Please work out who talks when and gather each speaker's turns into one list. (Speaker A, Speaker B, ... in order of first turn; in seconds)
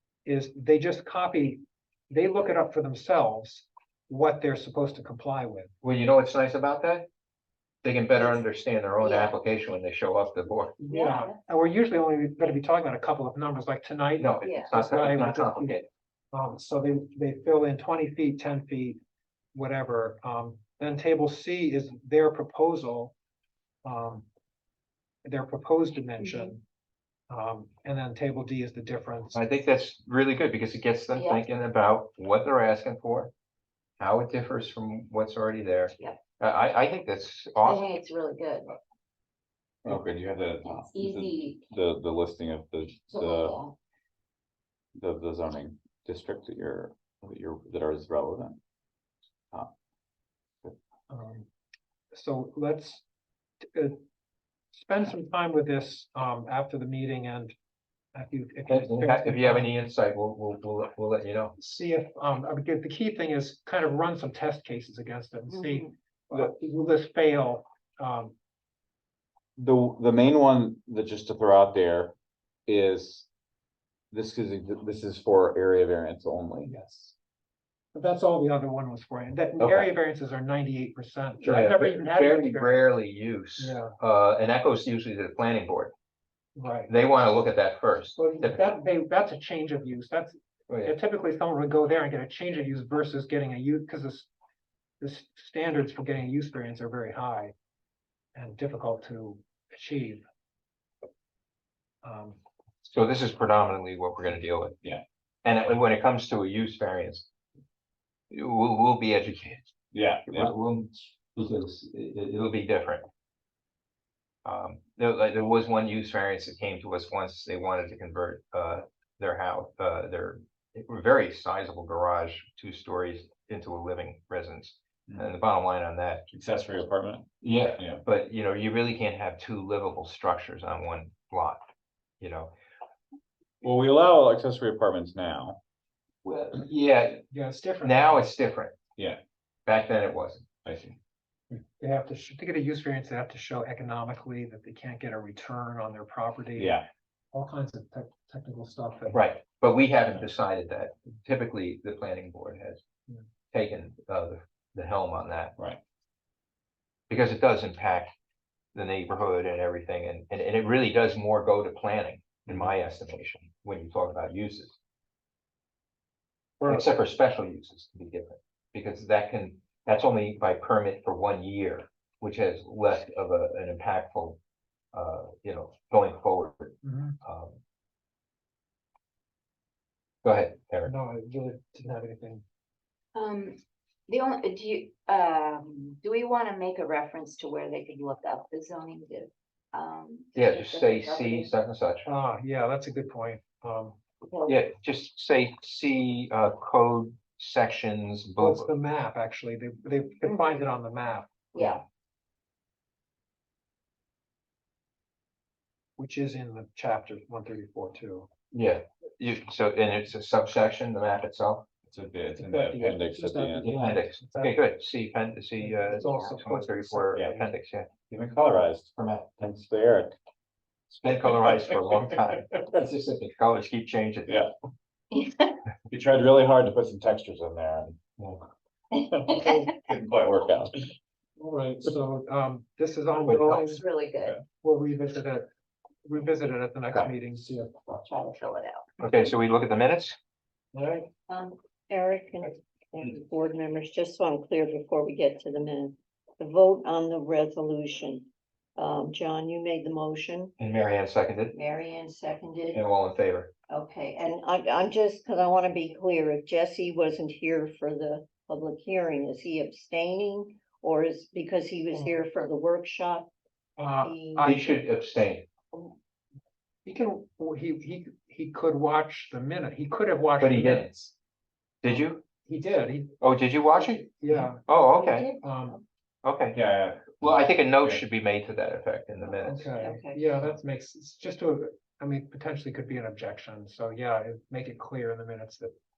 Speaker A: 0.2-5.7, 10.8-15.8, 16.3-19.0, 19.5-23.1, 23.8-24.2, 25.2-26.6, 27.3-29.4, 51.1-51.5, 52.1-53.0, 53.6-54.0, 54.7-57.5, 58.1-59.7, 61.6-68.3, 76.6-77.1, 77.9-82.8, 83.6-83.9, 86.5-86.9, 88.2-94.3, 95.0-97.5, 98.3-100.2, 102.0-102.4, 137.3-138.3, 141.5-146.8, 147.3-149.2, 166.6-166.9, 176.8-177.2, 180.8-182.4, 192.0-194.0, 198.4-201.8, 206.0-208.3, 212.3-214.6, 215.6-217.5, 231.4-233.8, 234.6-235.5, 236.1-237.7, 240.7-241.1, 263.8-264.8, 266.8-271.1, 271.8-273.1, 273.7-274.6, 275.2-275.8, 279.4-285.7
Speaker B: 5.8-7.0, 7.8-10.8, 14.2-15.9, 29.3-33.3, 34.0-37.8, 58.7-61.5, 79.6-79.9, 81.4-85.9, 86.9-88.7, 90.7-91.0, 102.8-104.8, 105.4-107.3, 108.3-109.7, 110.3-113.0, 114.4-126.2, 127.4-131.6, 132.2-132.5, 136.2-137.3, 137.8-138.7, 139.7-140.5, 149.1-152.8, 153.5-155.5, 157.1-158.1, 158.7-164.8, 166.6-174.4, 174.9-177.6, 180.2-180.9, 190.3-192.1, 194.4-198.7, 208.5-211.7, 213.6-217.9, 220.9-224.5, 233.3-233.6, 239.0-240.2, 250.6-251.5, 252.7-253.5, 264.4-265.4, 270.4-271.1, 271.8-272.2, 273.2-275.3, 276.2-276.6, 277.2-279.7
Speaker C: 9.0-9.3, 10.9-11.4, 14.4-14.7, 31.1-31.4, 37.6-38.8, 40.6-41.7, 43.1-43.7, 183.1-191.5, 194.2-194.6, 200.2-200.6, 201.5-201.8, 225.1-225.6, 228.9-229.7, 233.7-234.3, 237.8-238.8, 241.3-241.6
Speaker D: 39.8-43.6, 44.9-48.6, 69.5-72.1, 72.7-73.3, 74.1-76.7, 109.9-110.5, 126.3-127.2, 133.6-135.6, 140.6-141.0, 146.6-146.8, 162.5-162.7, 211.9-213.7, 218.1-220.2, 221.4-222.0, 225.9-228.0, 229.3-230.9, 276.5-278.0
Speaker E: 65.5-65.9, 241.9-250.5, 251.5-252.8, 253.7-263.3, 264.0-264.5, 279.8-280.2